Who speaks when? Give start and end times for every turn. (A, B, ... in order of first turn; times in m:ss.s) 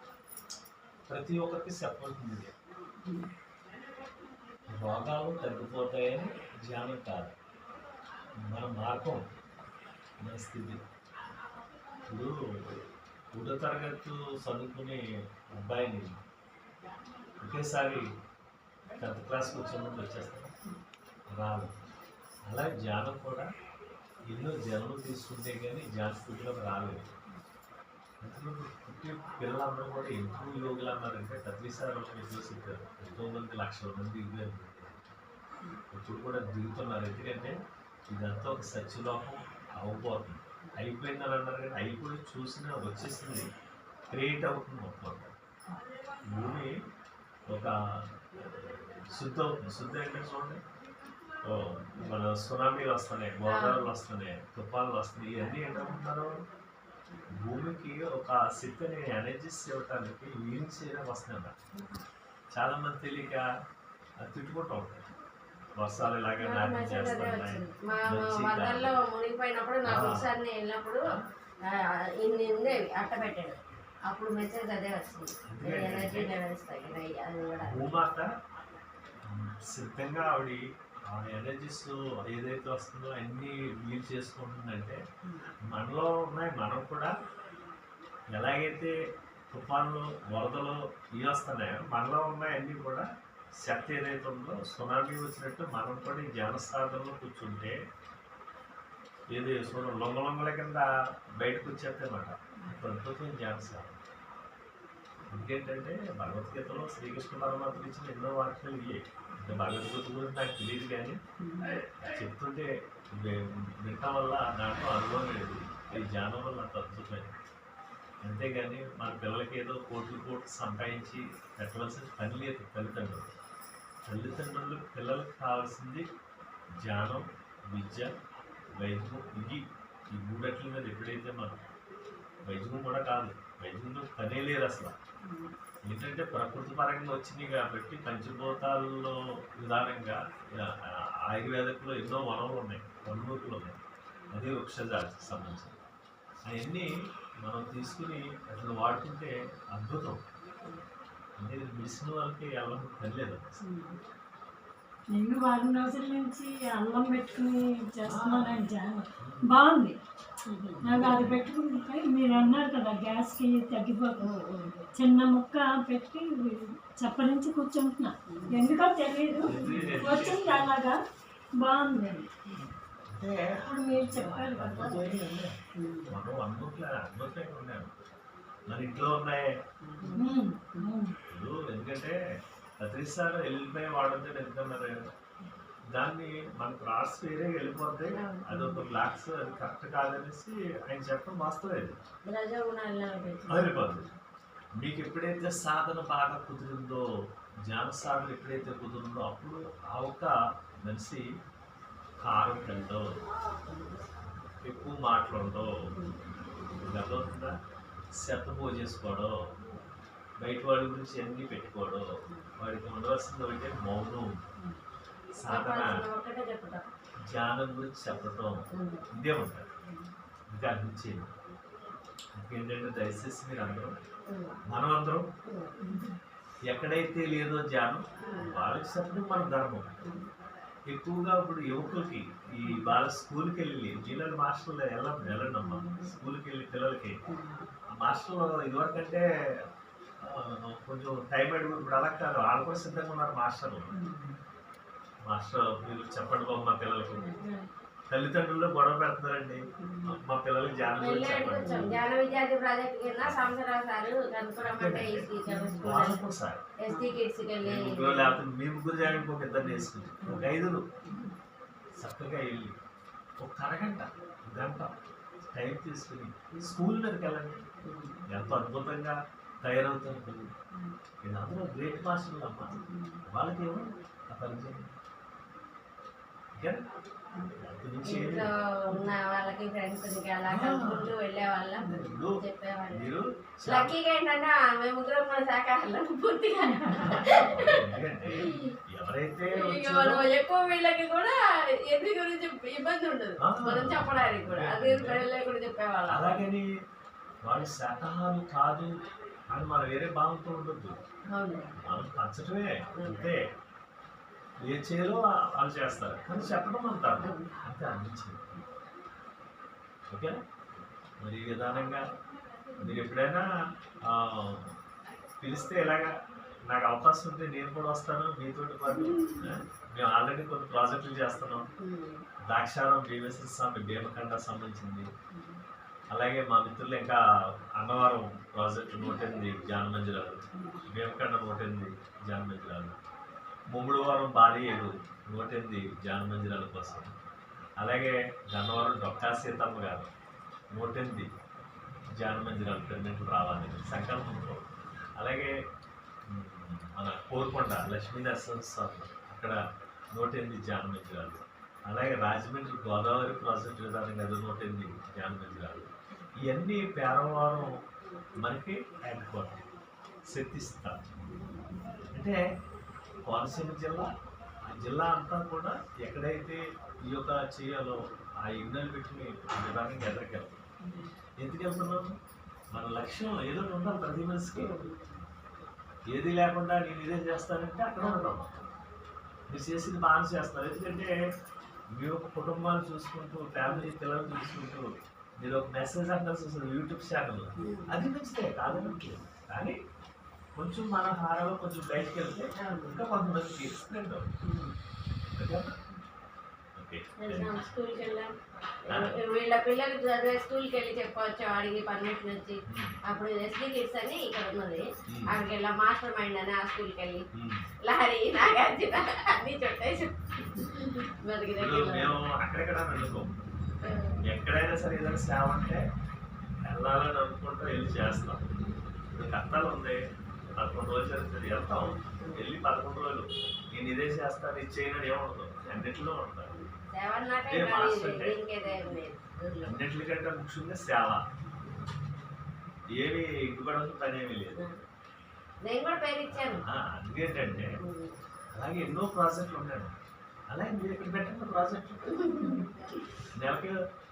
0:01.1-0:02.5 A
0:04.7-0:07.3 A
0:08.5-0:09.2 A
0:10.2-0:10.8 A
0:12.1-0:12.4 A
0:13.4-0:15.0 A
0:15.6-0:16.1 A
0:17.4-0:18.1 A
0:19.0-0:20.5 A
0:21.4-0:21.7 A
0:22.5-0:23.5 A
0:24.3-0:27.1 A
0:28.2-0:35.1 A
0:35.9-0:37.6 A
0:38.1-0:43.5 A
0:44.1-0:45.3 A
0:46.3-0:46.8 A
0:48.5-0:50.6 A
0:51.4-0:56.3 A
0:53.5-0:53.9 B
0:55.7-0:56.0 B
0:57.3-1:01.5 A
1:01.7-1:02.0 B
1:02.5-1:03.4 A
1:04.2-1:05.0 A
1:05.8-1:09.0 A
1:06.4-1:11.0 B
1:09.9-1:10.3 A
1:11.7-1:17.8 B
1:15.4-1:16.3 A
1:17.6-1:18.3 A
1:19.3-1:25.0 A
1:25.7-1:27.1 A
1:28.3-1:28.9 A
1:29.5-1:33.1 A
1:33.6-1:37.8 A
1:39.3-1:40.9 A
1:41.4-1:44.0 A
1:45.3-1:51.2 A
1:51.4-1:51.8 B
1:51.7-1:57.4 A
1:58.2-2:03.3 A
2:04.1-2:06.1 A
2:06.8-2:08.1 A
2:08.8-2:11.6 A
2:12.4-2:14.9 A
2:15.8-2:23.8 A
2:24.3-2:25.8 A
2:26.5-2:26.9 A
2:27.4-2:30.2 A
2:31.4-2:33.6 A
2:33.6-2:34.0 B
2:35.1-2:40.0 C
2:38.0-2:38.6 A
2:39.2-2:39.6 A
2:40.5-2:41.4 B
2:40.8-2:44.3 C
2:40.9-2:41.2 A
2:44.2-2:44.8 B
2:45.0-2:51.0 C
2:48.3-2:48.6 B
2:49.5-2:50.7 A
2:51.6-2:52.3 C
2:53.1-2:55.6 A
2:53.6-2:55.2 C
2:55.8-2:56.1 B
2:56.1-2:57.9 A
2:58.7-2:59.5 A
2:59.9-3:00.3 B
3:00.2-3:01.2 C
3:01.3-3:02.2 A
3:02.8-3:05.0 A
3:05.9-3:12.0 A
3:08.1-3:08.9 B
3:12.3-3:13.8 B
3:13.5-3:14.1 A
3:14.8-3:17.0 A
3:17.7-3:21.2 A
3:22.2-3:23.0 A
3:23.7-3:24.0 B
3:24.6-3:25.8 A
3:26.8-3:27.6 A
3:28.2-3:29.4 A
3:30.4-3:32.1 A
3:32.6-3:34.4 A
3:35.4-3:36.0 A
3:35.5-3:36.8 B
3:37.3-3:39.7 A
3:38.7-3:39.1 B
3:40.5-3:41.3 A
3:42.4-3:43.9 A
3:44.3-3:44.6 B
3:44.7-3:45.3 A
3:45.4-3:45.7 B
3:45.8-3:46.2 C
3:46.7-3:50.0 A
3:48.2-3:48.5 B
3:50.9-3:57.2 A
3:55.3-3:56.1 B
3:57.3-3:57.7 B
3:58.0-3:59.2 A
4:00.2-4:03.9 A
4:05.3-4:07.3 A
4:07.3-4:07.7 B
4:08.1-4:12.0 A
4:11.0-4:16.2 B
4:13.2-4:13.5 A
4:14.6-4:16.6 A
4:16.8-4:18.4 B
4:17.6-4:20.8 A
4:20.2-4:20.5 B
4:22.0-4:22.7 A
4:23.4-4:24.9 A
4:25.5-4:27.6 A
4:27.9-4:28.2 B
4:28.3-4:30.5 A
4:31.2-4:34.9 A
4:32.8-4:33.1 B
4:36.6-4:36.8 A
4:37.5-4:38.5 A
4:38.0-4:43.1 B
4:40.5-4:41.1 A
4:41.8-4:42.4 A
4:42.9-4:44.0 A
4:43.6-4:48.7 B
4:46.6-4:47.3 C
4:47.0-4:50.3 A
4:49.5-4:56.4 B
4:53.4-4:55.3 A
4:56.1-4:56.7 A
4:57.4-4:58.9 A
4:59.5-5:01.0 A
5:01.3-5:01.8 B
5:01.8-5:03.4 A
5:03.0-5:03.3 B
5:04.6-5:08.5 A
5:07.2-5:07.5 B
5:10.1-5:10.4 A
5:11.2-5:12.0 A
5:12.8-5:13.5 A
5:14.1-5:14.7 A
5:15.4-5:16.1 A
5:16.7-5:21.7 A
5:19.0-5:19.6 B
5:21.8-5:22.2 B
5:22.5-5:25.1 A
5:26.1-5:27.2 A
5:27.8-5:33.0 A
5:30.6-5:30.8 B
5:33.7-5:37.1 A
5:37.8-5:40.1 A
5:40.7-5:41.3 A
5:42.2-5:45.5 A
5:46.3-5:49.6 A
5:50.1-5:57.7 A
5:58.4-5:59.6 A
6:00.3-6:01.0 A
6:02.1-6:02.4 A
6:03.2-6:04.1 A
6:04.7-6:10.6 A
6:11.4-6:12.1 A
6:12.7-6:14.8 A
6:14.5-6:15.0 B
6:16.1-6:18.6 A
6:18.0-6:18.3 B
6:19.5-6:21.1 A
6:22.0-6:29.8 A
6:27.6-6:28.0 B
6:28.7-6:29.0 B
6:30.6-6:34.3 A
6:32.6-6:33.0 B
6:34.4-6:34.7 B
6:35.3-6:35.8 A
6:36.8-6:37.7 A
6:37.2-6:38.3 B
6:38.9-6:47.2 B
6:38.9-6:39.2 A
6:42.7-6:43.0 A
6:45.1-6:45.4 A
6:47.3-6:47.7 A
6:47.8-6:52.2 B
6:51.6-6:53.3 A
6:53.8-6:54.2 B
6:54.2-6:55.8 A
6:56.7-6:58.4 A
6:59.2-7:00.0 A
7:00.6-7:06.6 A
7:02.0-7:02.5 B
7:06.5-7:09.8 B
7:07.5-7:08.3 A
7:09.6-7:11.2 A
7:13.0-7:14.7 A
7:15.6-7:16.6 B
7:16.3-7:17.8 A
7:17.7-7:18.2 B
7:18.6-7:19.9 A
7:20.5-7:22.3 A
7:22.1-7:22.9 B
7:23.4-7:23.8 A